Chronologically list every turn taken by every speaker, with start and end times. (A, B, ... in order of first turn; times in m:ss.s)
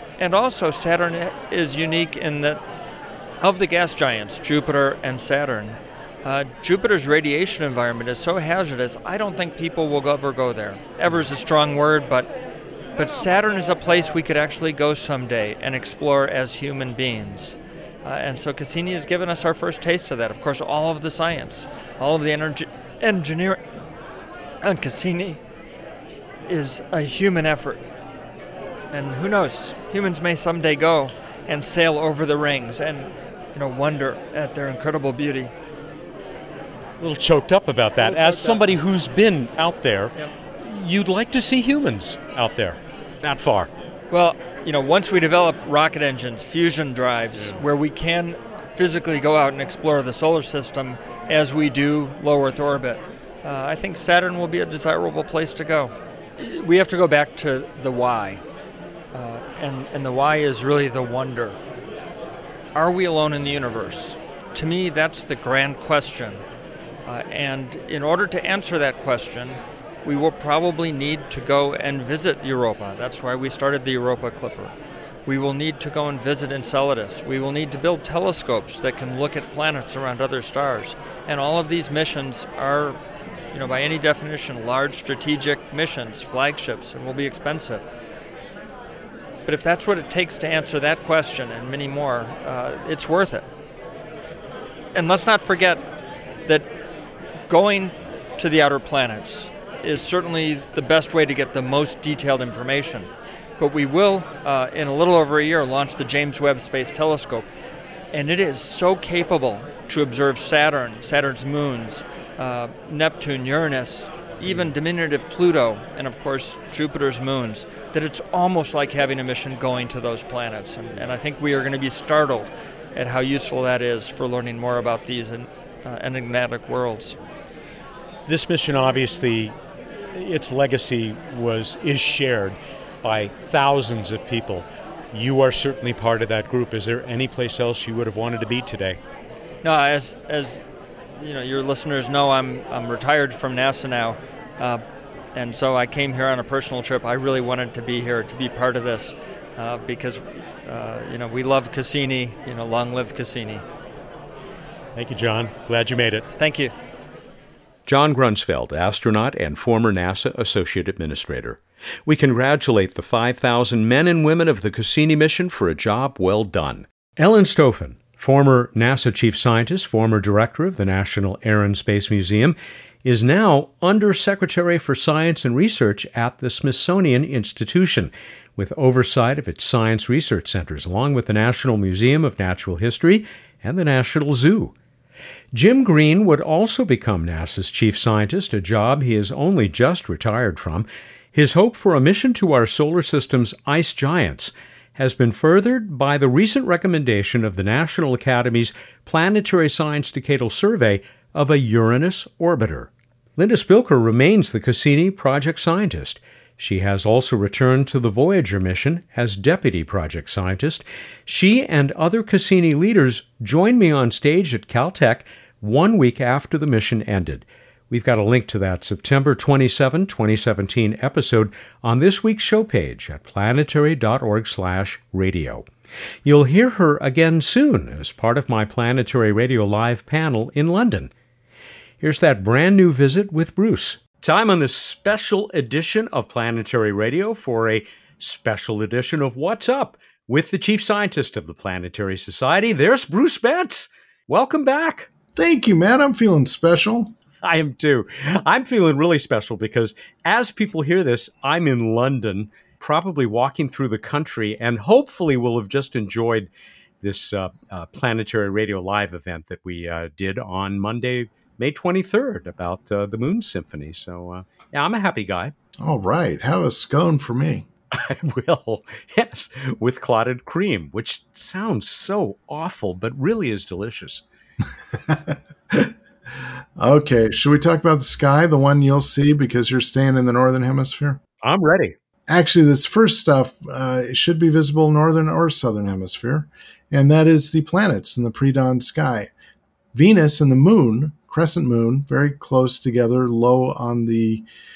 0:00.2-0:02.6 A
0:03.4-0:12.3 A
0:13.0-0:23.6 A
0:24.6-0:25.4 A
0:26.5-0:27.8 A
0:28.9-0:35.5 A
0:37.0-0:43.7 B
0:44.1-0:58.4 A
0:47.3-0:47.6 B
0:59.1-1:01.6 A
1:02.7-1:06.4 A
1:07.0-1:14.7 A
1:15.2-1:23.0 A
1:23.5-1:27.8 A
1:29.4-1:33.4 A
1:34.9-1:35.8 A
1:37.5-1:47.4 A
1:48.1-2:07.2 A
2:08.3-2:19.0 B
2:19.6-2:20.6 A
2:21.2-2:24.8 A
2:25.3-2:33.6 A
2:34.9-2:36.2 B
2:36.4-2:36.7 A
2:37.8-3:04.7 B
3:05.5-3:45.6 B
3:46.2-3:51.1 B
3:52.0-4:05.1 B
4:05.4-4:07.1 C
4:07.4-4:16.5 B
4:17.0-4:25.5 B
4:25.8-4:27.6 C
4:27.9-4:34.2 B
4:35.1-4:35.9 C
4:36.8-4:41.2 C
4:41.4-4:42.0 B
4:42.3-4:49.3 C
4:49.9-4:54.4 C